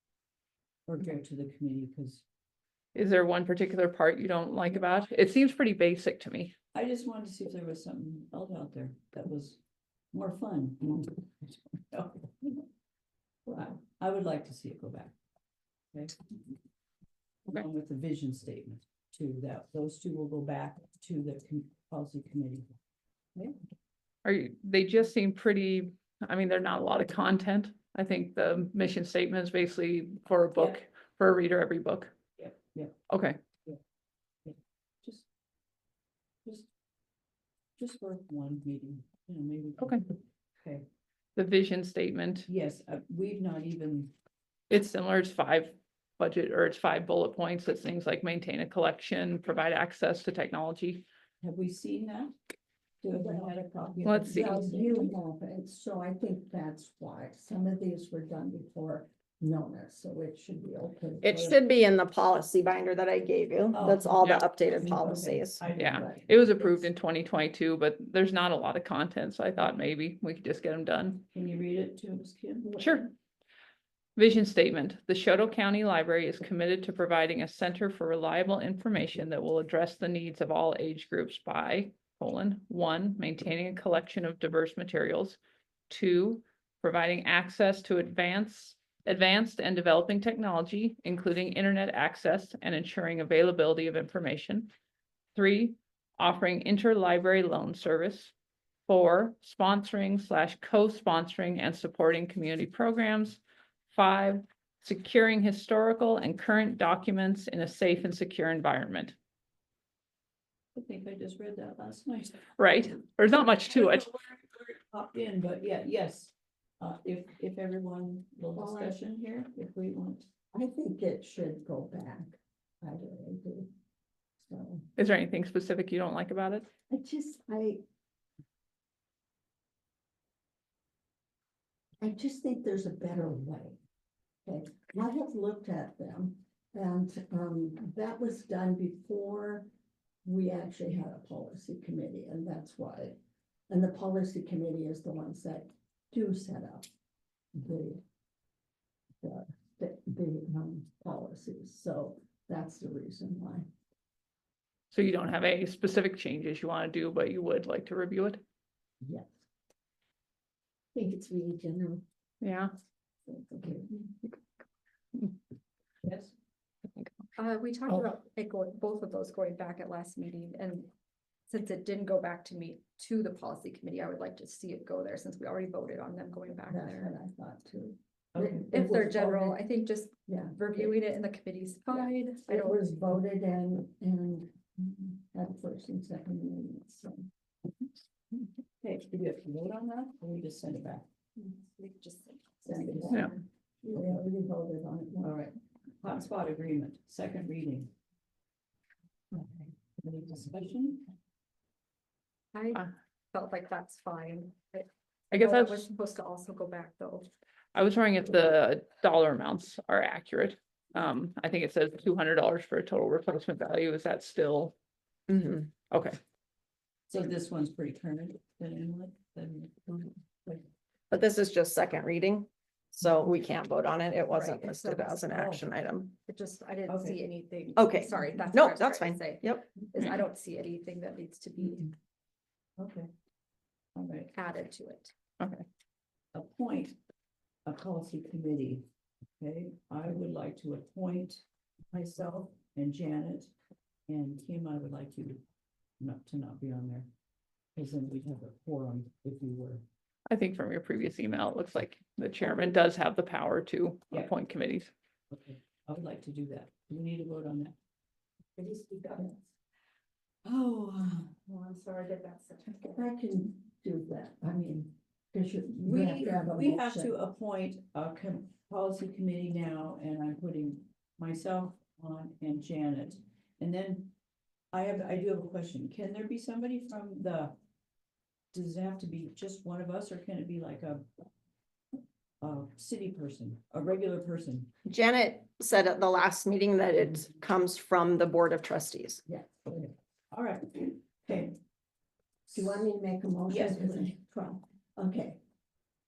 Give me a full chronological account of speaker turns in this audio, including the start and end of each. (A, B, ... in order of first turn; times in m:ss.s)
0:00.9-0:02.2 A
0:03.0-0:06.6 B
0:06.7-0:09.6 A
0:10.1-0:12.6 A
0:13.5-0:15.2 A
0:15.9-0:16.2 A
0:17.5-0:22.7 A
0:24.2-0:32.1 B
0:32.4-0:32.9 A
0:33.1-0:33.4 B
0:34.4-0:35.3 A
0:37.8-0:40.0 A
0:40.6-0:40.9 A
0:41.4-0:42.5 B
0:42.5-0:44.1 A
0:44.7-0:51.0 B
0:51.4-0:52.4 A
0:53.0-0:55.1 A
0:53.1-1:01.4 C
0:54.0-0:54.6 B
1:01.2-1:05.6 D
1:03.7-1:06.7 A
1:05.8-1:11.3 B
1:11.3-1:12.8 A
1:12.8-1:13.1 B
1:14.2-1:25.4 B
1:25.9-1:34.7 B
1:35.4-1:38.3 B
1:38.9-1:43.4 B
1:43.9-1:49.2 B
1:50.8-1:52.5 A
1:52.6-1:54.1 B
1:53.3-2:00.3 A
1:58.6-1:59.0 C
2:00.5-2:03.7 C
2:04.4-2:04.9 C
2:05.0-2:06.7 B
2:06.9-2:07.8 C
2:12.0-2:13.8 C
2:14.5-2:19.7 C
2:20.2-2:23.2 C
2:23.7-2:26.9 C
2:27.6-2:28.0 C
2:29.2-2:33.7 C
2:34.9-2:38.4 B
2:39.0-2:39.4 C
2:40.9-2:42.0 C
2:42.4-2:42.7 B
2:43.3-2:44.1 C
2:46.0-2:46.4 A
2:46.9-2:47.3 B
2:47.4-2:50.9 E
2:51.5-2:57.1 E
2:56.7-2:59.6 C
2:58.4-2:58.7 A
2:58.7-3:02.8 E
3:00.3-3:00.9 C
3:01.9-3:07.3 C
3:08.8-3:11.1 A
3:11.4-3:13.3 E
3:12.6-3:15.4 C
3:12.9-3:13.3 A
3:14.0-3:14.2 A
3:15.2-3:17.9 A
3:20.0-3:21.0 A
3:22.5-3:27.3 E
3:25.3-3:25.8 B
3:27.7-3:34.7 B
3:35.3-3:36.0 D
3:37.1-3:40.6 A
3:41.1-3:46.2 D
3:44.3-3:45.1 E
3:45.3-3:45.6 A
3:46.2-3:51.9 E
3:46.9-3:47.2 A
3:47.8-3:49.7 D
3:52.8-3:53.1 A
3:54.0-3:54.3 A
3:54.3-3:55.1 E
3:55.4-3:55.7 B
3:56.3-3:57.0 A
3:57.7-3:58.8 A
3:59.4-4:03.5 A
4:04.1-4:05.4 A
4:06.0-4:07.1 A
4:07.8-4:09.8 A
4:10.3-4:14.9 B
4:15.3-4:17.8 A
4:18.6-4:19.2 E
4:20.4-4:21.4 A
4:21.5-4:22.9 E
4:22.8-4:27.1 C
4:25.8-4:34.1 A
4:34.7-4:37.6 A
4:38.5-4:41.1 A
4:42.4-4:44.7 A
4:44.9-4:49.2 D
4:49.3-4:49.9 C
4:50.3-4:51.6 A
4:52.5-4:55.4 C
4:53.5-4:54.1 A